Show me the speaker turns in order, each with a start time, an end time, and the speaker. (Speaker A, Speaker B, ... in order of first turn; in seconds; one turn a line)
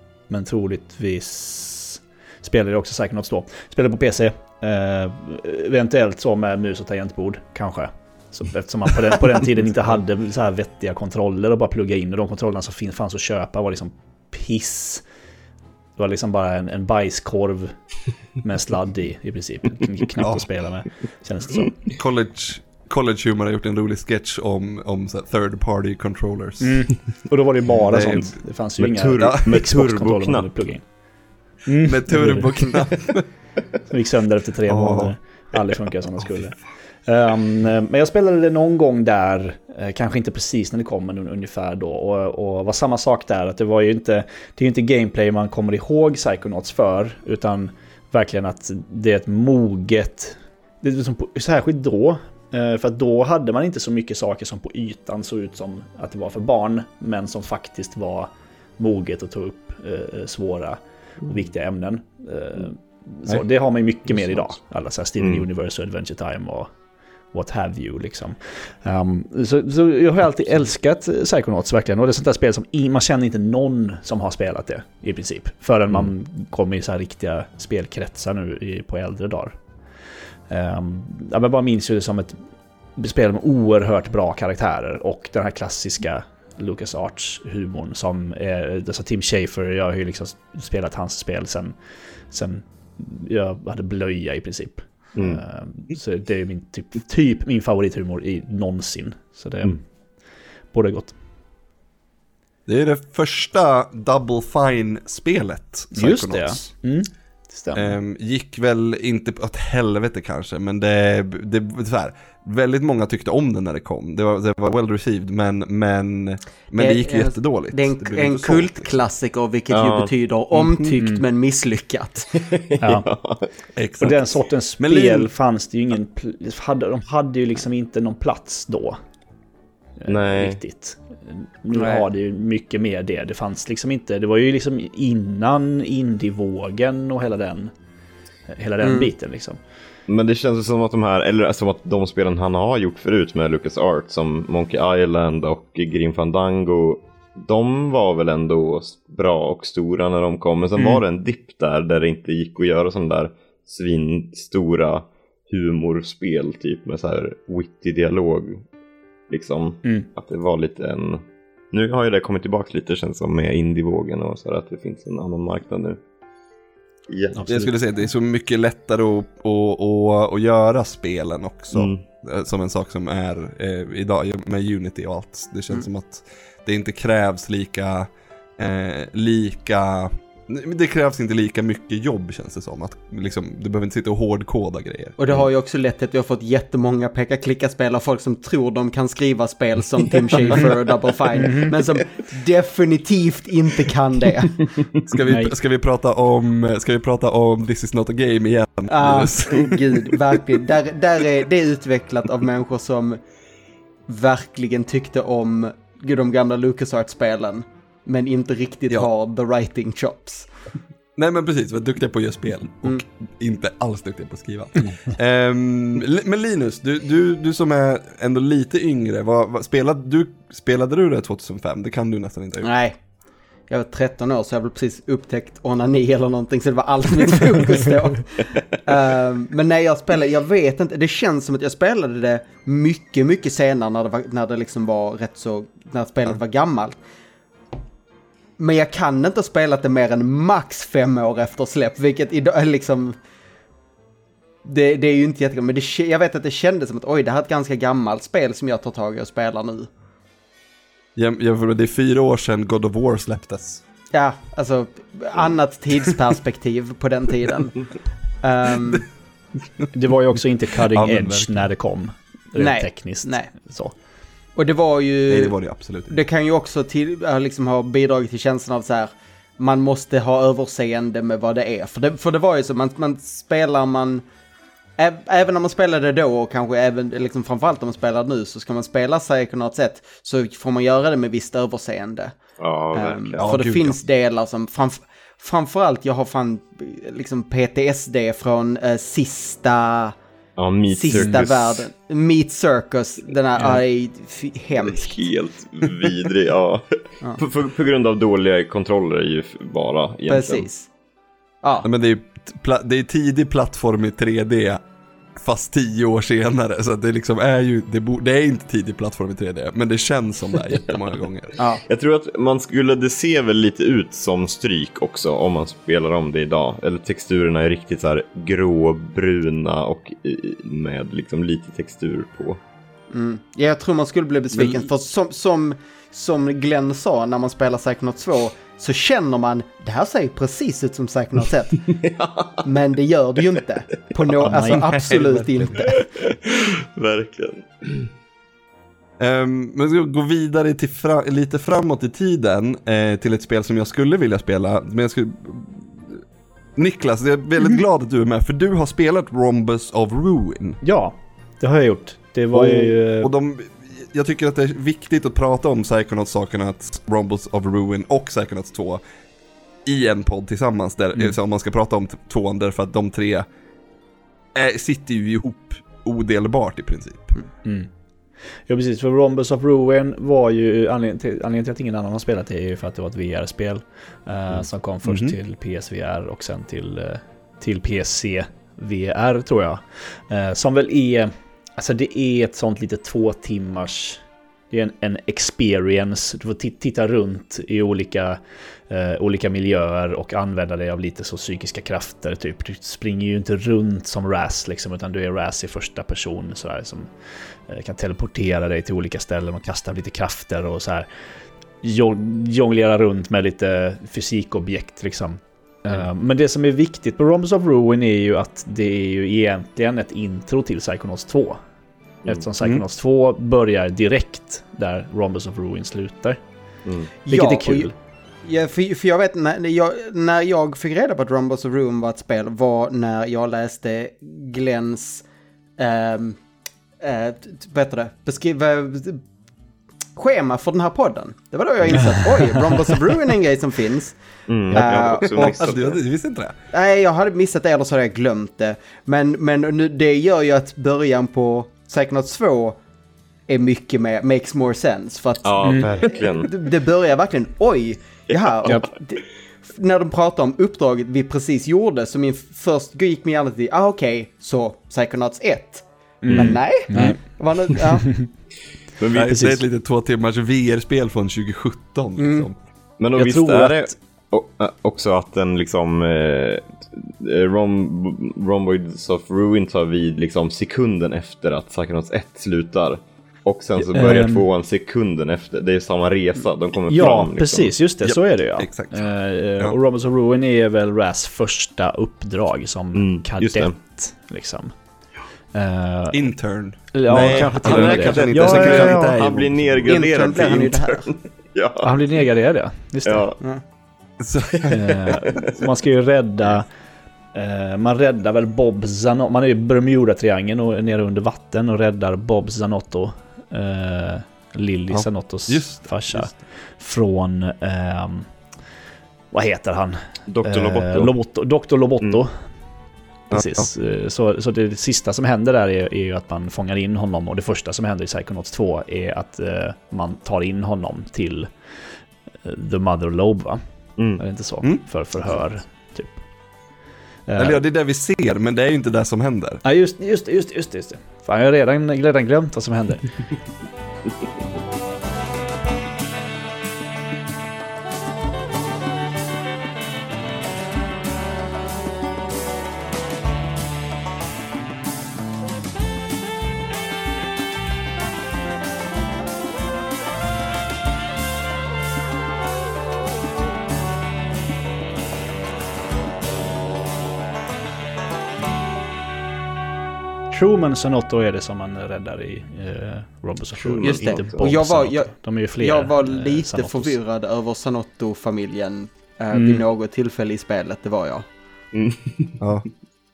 Speaker A: 0.3-15.0
Speaker A: 16.0-17.8
Speaker A: 18.4-21.7
Speaker B: 20.2-20.4
Speaker B: 21.9-26.9
Speaker A: 26.6-30.9
Speaker B: 27.9-28.4
Speaker C: 27.9-28.2
Speaker C: 28.8-30.6
Speaker A: 31.6-32.5
Speaker B: 31.8-33.3
Speaker A: 33.9-66.7
Speaker B: 34.7-35.1
Speaker B: 36.2-36.5
Speaker C: 65.2-65.5
Speaker A: 67.3-79.6
Speaker A: 80.5-82.4
Speaker A: 83.0-91.7
Speaker A: 92.3-99.8
Speaker C: 95.2-95.4
Speaker A: 100.7-101.2
Speaker B: 102.7-106.7
Speaker A: 105.9-107.9
Speaker B: 107.7-119.0
Speaker D: 116.8-122.3
Speaker C: 119.7-120.1
Speaker B: 120.5-120.8
Speaker A: 121.0-121.2
Speaker C: 122.4-123.5
Speaker A: 122.8-123.1
Speaker B: 123.7-125.3
Speaker A: 124.0-129.0
Speaker A: 130.0-137.7
Speaker C: 130.1-130.6
Speaker D: 131.7-132.1
Speaker A: 138.5-139.6
Speaker D: 138.8-139.1
Speaker C: 140.1-158.6
Speaker A: 150.8-151.0
Speaker C: 159.3-166.0
Speaker C: 167.1-167.4
Speaker A: 167.3-167.7
Speaker B: 167.5-185.2
Speaker C: 171.7-172.0
Speaker D: 185.2-194.7
Speaker A: 191.3-191.8
Speaker B: 195.1-200.1
Speaker A: 195.3-195.5
Speaker D: 198.9-203.2
Speaker D: 204.1-210.5
Speaker B: 211.2-222.7
Speaker D: 222.6-222.9
Speaker D: 223.7-237.0
Speaker D: 238.6-243.2
Speaker D: 244.6-249.9
Speaker B: 251.1-253.8
Speaker D: 254.1-257.9
Speaker D: 258.4-259.1
Speaker A: 259.9-263.9
Speaker B: 260.9-261.7
Speaker D: 262.6-263.5
Speaker D: 264.6-265.6
Speaker B: 265.3-266.2
Speaker D: 266.1-274.2
Speaker D: 275.0-282.3
Speaker C: 282.6-283.4
Speaker D: 282.9-290.1
Speaker B: 283.4-284.0
Speaker C: 290.6-291.9
Speaker D: 290.9-295.2
Speaker A: 291.1-291.4
Speaker C: 294.7-300.7
Speaker D: 300.3-300.9
Speaker B: 301.8-304.8
Speaker B: 305.4-311.5
Speaker C: 311.8-322.6
Speaker D: 323.1-331.9
Speaker B: 324.5-324.9
Speaker C: 331.9-332.6
Speaker D: 332.6-336.0
Speaker B: 334.4-335.9
Speaker A: 334.4-334.8
Speaker C: 335.8-338.1
Speaker B: 339.2-346.2
Speaker B: 346.8-350.8
Speaker A: 350.8-353.3
Speaker B: 352.5-359.0
Speaker B: 359.8-363.4
Speaker B: 364.5-367.3
Speaker A: 367.6-367.9
Speaker A: 368.6-401.1
Speaker B: 375.0-375.4
Speaker A: 401.8-411.6
Speaker A: 412.2-416.4
Speaker C: 416.8-417.1
Speaker D: 417.2-417.9
Speaker A: 417.3-417.9
Speaker D: 418.4-425.2
Speaker D: 425.8-426.4
Speaker D: 427.0-429.2
Speaker D: 430.1-434.1
Speaker C: 434.5-436.0
Speaker D: 434.7-435.5
Speaker B: 435.2-436.5
Speaker D: 436.7-442.8
Speaker D: 443.5-458.2
Speaker C: 445.4-446.6
Speaker A: 445.6-445.9
Speaker C: 448.3-448.8
Speaker A: 456.2-457.3
Speaker C: 456.3-457.1
Speaker A: 458.0-458.3
Speaker C: 459.0-459.5
Speaker B: 459.1-462.6
Speaker A: 459.2-459.6
Speaker D: 462.2-462.5
Speaker C: 463.0-477.8
Speaker A: 463.1-463.9
Speaker A: 473.9-474.4
Speaker A: 476.9-484.8
Speaker B: 478.0-479.0
Speaker C: 482.9-483.7
Speaker A: 485.5-486.2
Speaker B: 486.1-490.2
Speaker A: 486.9-489.1
Speaker C: 487.1-491.9
Speaker D: 489.9-491.1
Speaker A: 491.8-493.3
Speaker C: 493.0-493.4
Speaker B: 494.2-494.7
Speaker C: 494.5-495.4
Speaker A: 494.7-496.7
Speaker A: 497.3-508.3
Speaker B: 504.9-506.4
Speaker A: 509.3-512.4
Speaker C: 510.3-511.1
Speaker A: 513.3-521.5
Speaker B: 513.3-513.7
Speaker A: 522.4-526.3
Speaker C: 524.0-524.2
Speaker A: 527.2-527.6
Speaker B: 527.4-529.6
Speaker A: 529.6-533.2
Speaker A: 560.3-567.0
Speaker C: 563.6-564.5
Speaker D: 563.8-571.2
Speaker A: 569.3-569.6
Speaker C: 571.7-572.4
Speaker B: 572.4-572.6